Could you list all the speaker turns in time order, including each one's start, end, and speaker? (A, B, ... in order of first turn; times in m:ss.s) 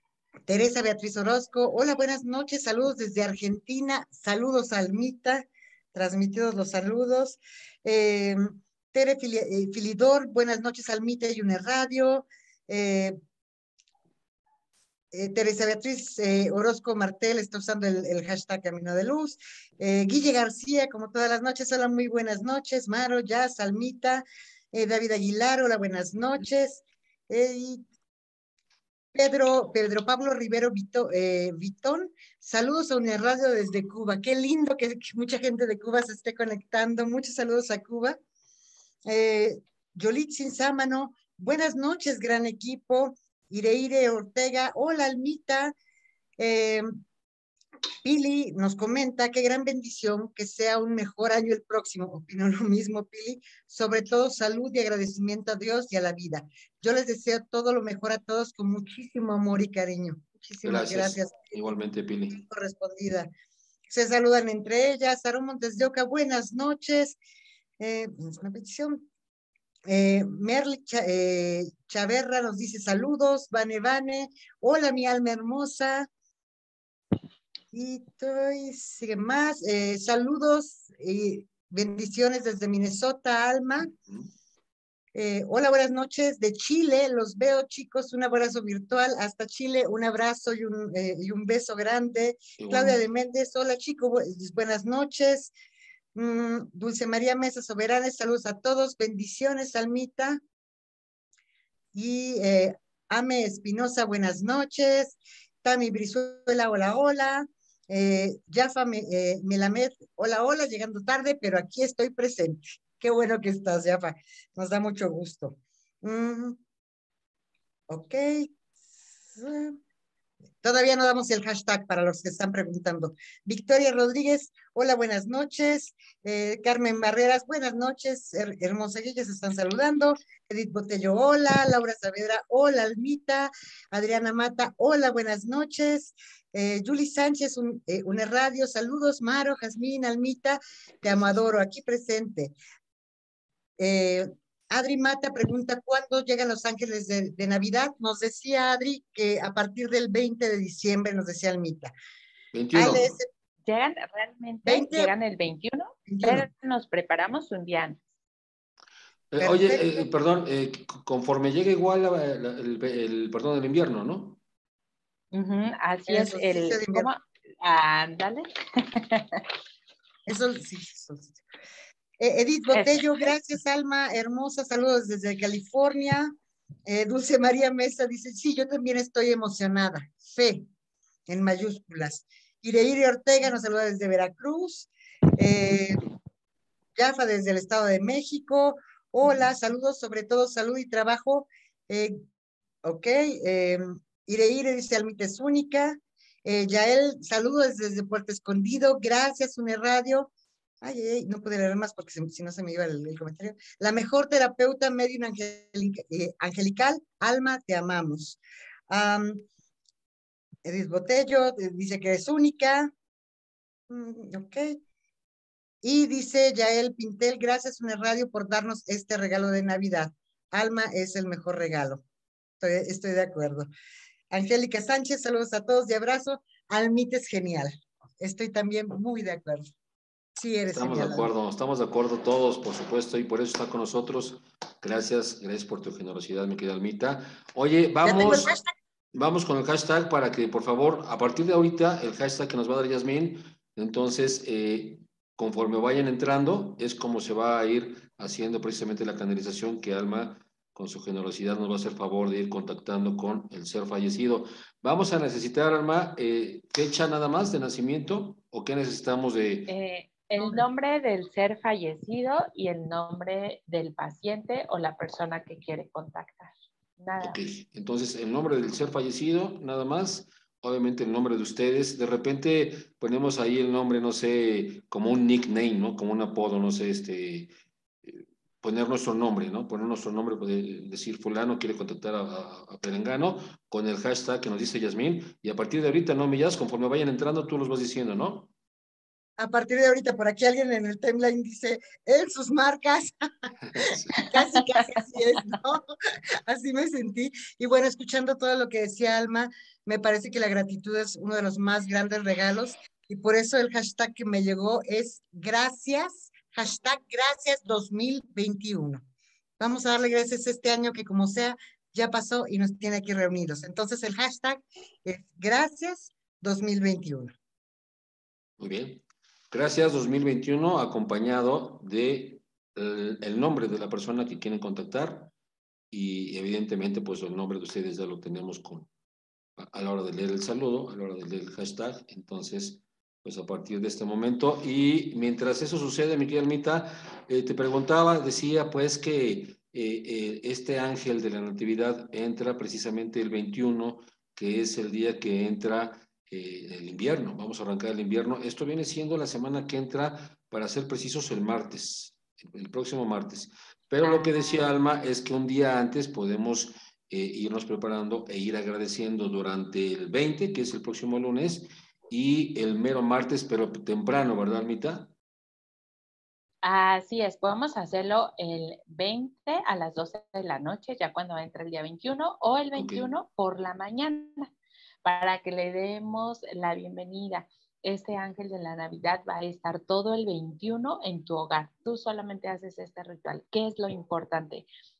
0:00.5-0:13.2 A
0:15.1-0:27.8 A
0:29.1-0:38.2 A
0:39.1-0:45.7 A
0:46.4-0:46.8 A
0:48.0-1:01.7 A
1:00.6-1:02.4 B
1:02.3-1:03.3 A
1:03.9-1:07.2 A
1:07.8-1:09.0 A
1:09.8-1:16.1 A
1:17.7-1:23.9 A
1:25.1-1:35.5 A
1:32.6-1:33.0 B
1:36.1-1:40.4 A
1:41.9-1:56.6 A
1:57.9-1:58.5 A
1:59.2-1:59.8 A
2:00.6-2:22.5 A
2:23.8-2:31.9 A
2:32.5-2:33.2 B
2:32.7-2:33.3 A
2:33.6-2:38.0 C
2:34.6-2:35.1 A
2:36.1-2:36.5 A
2:39.3-2:44.4 B
2:39.4-2:40.0 A
2:45.3-2:49.4 C
2:46.1-2:47.1 A
2:50.3-2:51.4 A
2:52.2-2:56.3 A
2:52.7-2:53.3 C
2:56.8-3:00.7 A
3:01.3-3:06.0 A
3:07.0-3:12.2 A
3:12.8-3:20.3 A
3:20.8-3:29.4 A
3:30.6-3:32.9 A
3:33.9-3:34.8 A
3:35.8-3:42.0 A
3:42.6-3:43.6 A
3:44.3-3:49.7 A
3:50.4-3:51.3 A
3:50.7-3:58.5 B
3:58.0-3:58.7 A
3:59.1-4:19.7 B
4:19.7-4:27.4 C
4:27.2-4:37.5 B
4:38.0-4:48.5 B
4:49.4-4:53.1 A
4:53.6-4:54.2 B
4:54.1-4:55.9 A
4:54.2-4:55.0 C
4:56.5-5:09.0 A
5:09.6-5:17.4 A
5:18.6-5:25.3 B
5:25.9-5:28.9 B
5:29.6-6:05.1 B
5:54.0-5:54.7 C
6:06.6-6:14.5 C
6:12.8-6:13.1 B
6:15.0-6:24.6 C